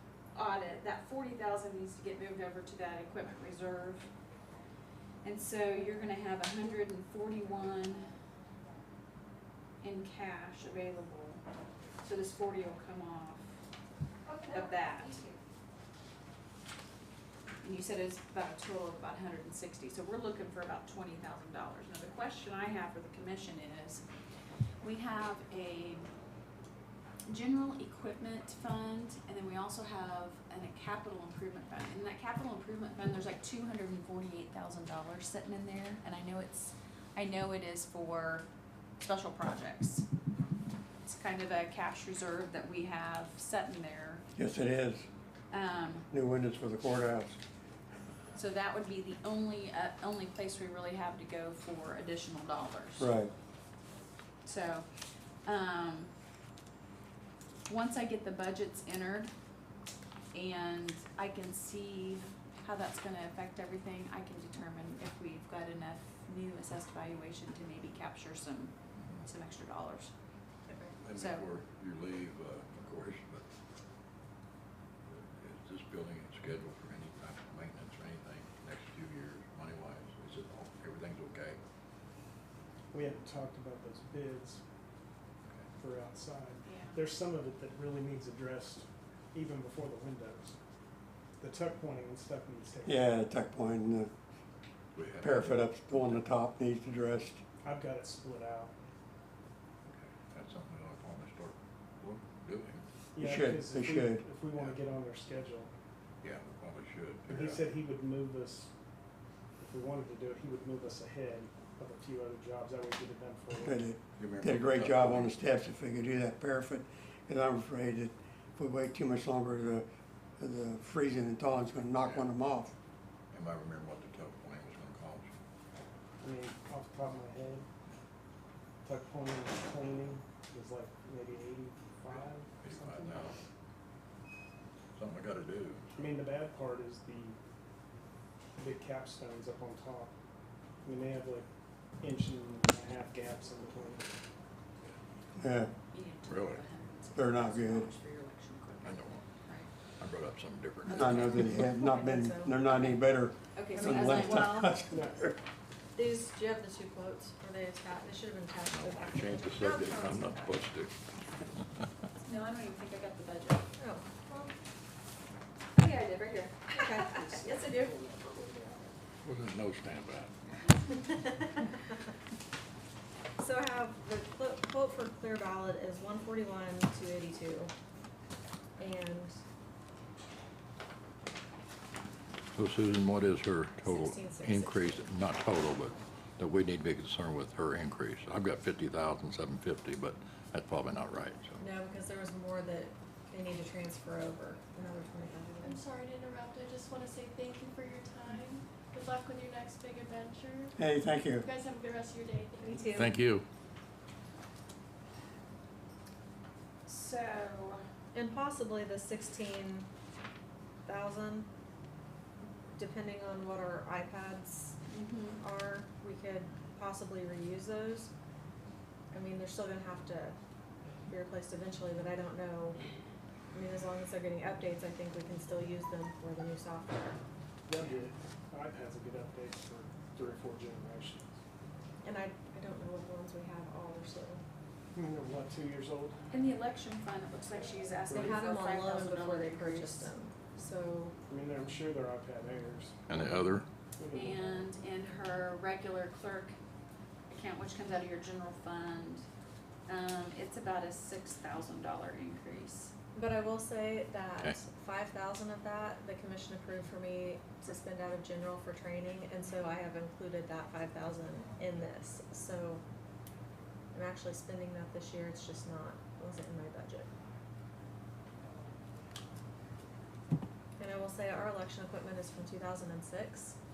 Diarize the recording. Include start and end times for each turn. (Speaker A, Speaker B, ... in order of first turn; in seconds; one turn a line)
Speaker A: 0.3-4.1
Speaker A: 5.2-8.1
Speaker A: 9.8-11.4
Speaker A: 12.0-13.5
Speaker B: 14.3-15.4
Speaker A: 14.5-15.2
Speaker A: 17.6-24.1
Speaker A: 24.8-26.1
Speaker A: 27.3-38.5
Speaker A: 39.0-40.1
Speaker A: 41.0-44.2
Speaker C: 44.4-45.1
Speaker A: 45.5-46.1
Speaker C: 46.1-47.4
Speaker A: 48.3-53.1
Speaker C: 53.0-53.3
Speaker A: 54.5-54.9
Speaker A: 55.4-56.1
Speaker A: 57.7-59.3
Speaker A: 60.3-70.1
Speaker B: 70.7-70.9
Speaker D: 71.0-73.5
Speaker A: 71.1-71.5
Speaker D: 75.0-81.6
Speaker E: 82.9-84.6
Speaker E: 85.8-90.5
Speaker A: 86.6-87.0
Speaker E: 91.4-93.0
Speaker C: 92.8-94.1
Speaker D: 94.9-96.2
Speaker C: 95.2-97.4
Speaker E: 97.6-98.7
Speaker D: 99.9-102.8
Speaker E: 103.1-105.7
Speaker C: 103.2-104.2
Speaker D: 106.2-107.7
Speaker E: 107.3-108.7
Speaker E: 109.6-113.8
Speaker C: 113.6-119.8
Speaker D: 114.2-115.3
Speaker C: 120.4-122.7
Speaker D: 122.0-122.3
Speaker D: 123.3-125.3
Speaker E: 126.2-127.7
Speaker E: 128.8-133.3
Speaker D: 132.1-133.4
Speaker D: 134.9-136.1
Speaker E: 136.0-137.4
Speaker E: 138.6-140.1
Speaker E: 140.8-141.5
Speaker E: 142.0-144.1
Speaker C: 145.4-145.7
Speaker A: 145.9-149.7
Speaker D: 146.3-146.6
Speaker C: 147.2-147.9
Speaker D: 148.8-149.3
Speaker D: 150.0-151.6
Speaker C: 150.9-155.3
Speaker A: 151.0-151.3
Speaker B: 151.4-152.6
Speaker A: 153.6-154.7
Speaker B: 153.7-154.8
Speaker E: 154.9-155.3
Speaker B: 156.0-160.6
Speaker D: 158.7-160.9
Speaker A: 162.2-163.7
Speaker B: 163.8-164.6
Speaker A: 165.8-168.4
Speaker B: 166.7-167.4
Speaker D: 169.2-170.6
Speaker B: 171.1-171.8
Speaker B: 173.4-177.7
Speaker B: 178.8-179.4
Speaker D: 182.5-191.6
Speaker B: 183.8-185.1
Speaker B: 191.6-195.8
Speaker F: 195.6-200.8
Speaker C: 200.8-201.4
Speaker F: 201.3-202.9
Speaker B: 202.6-203.2
Speaker D: 202.9-203.4
Speaker A: 206.9-207.8
Speaker B: 208.1-209.9
Speaker B: 210.9-211.5
Speaker B: 212.8-214.8
Speaker A: 214.9-215.4
Speaker B: 215.4-218.1
Speaker B: 219.1-220.4
Speaker B: 221.1-222.8
Speaker B: 223.5-227.2
Speaker E: 227.7-231.3
Speaker B: 232.0-234.4
Speaker E: 234.9-236.2
Speaker A: 236.3-240.1
Speaker E: 238.1-238.4
Speaker B: 238.1-241.2
Speaker E: 241.3-243.0
Speaker D: 243.1-243.7
Speaker E: 244.0-244.6
Speaker A: 244.1-246.6
Speaker A: 247.3-249.3
Speaker A: 249.9-252.9
Speaker B: 253.2-262.8
Speaker B: 263.9-267.1
Speaker B: 270.8-273.6